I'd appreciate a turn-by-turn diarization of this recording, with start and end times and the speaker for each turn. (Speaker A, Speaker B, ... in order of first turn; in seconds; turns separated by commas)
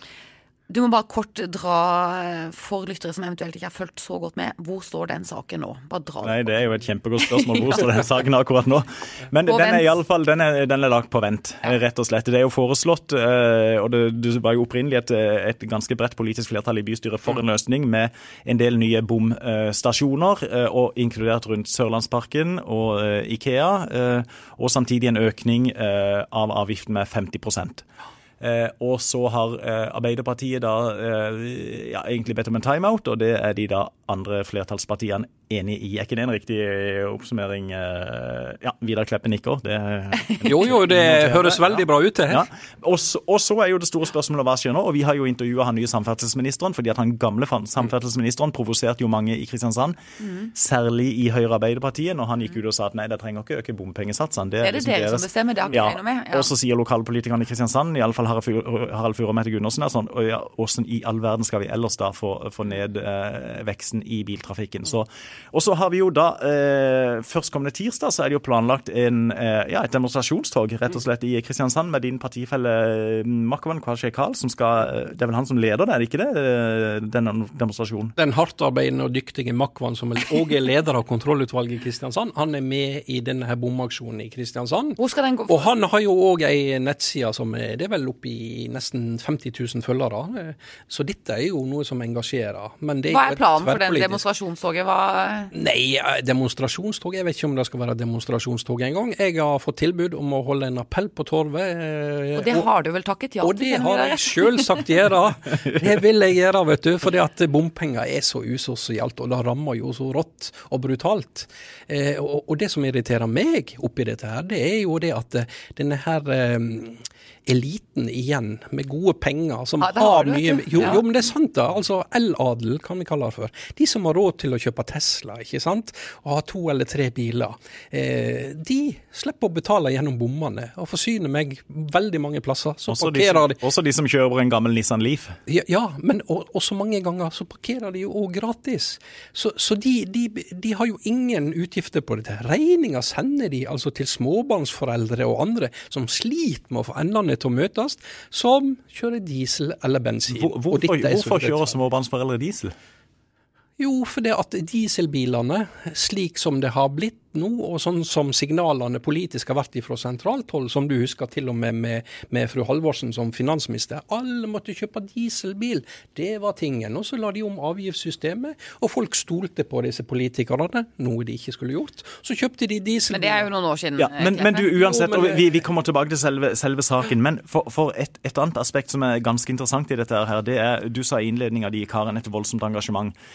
Speaker A: 0.7-6.5, Speaker B: 6.2-27.8, Speaker A: 7.3-7.8, Speaker A: 9.4-9.9, Speaker B: 28.4-50.0, Speaker C: 40.5-42.4, Speaker A: 50.2-50.5, Speaker B: 50.5-78.1, Speaker A: 54.6-56.5, Speaker C: 78.2-94.2, Speaker A: 85.0-85.7, Speaker A: 93.1-95.5, Speaker C: 95.5-102.7, Speaker A: 102.3-104.8, Speaker C: 103.4-133.6, Speaker A: 119.8-121.0, Speaker B: 132.9-135.4, Speaker C: 135.5-151.7, Speaker B: 150.3-152.7, Speaker C: 153.8-173.5, Speaker A: 173.1-174.8, Speaker B: 174.0-183.1, Speaker C: 174.8-175.4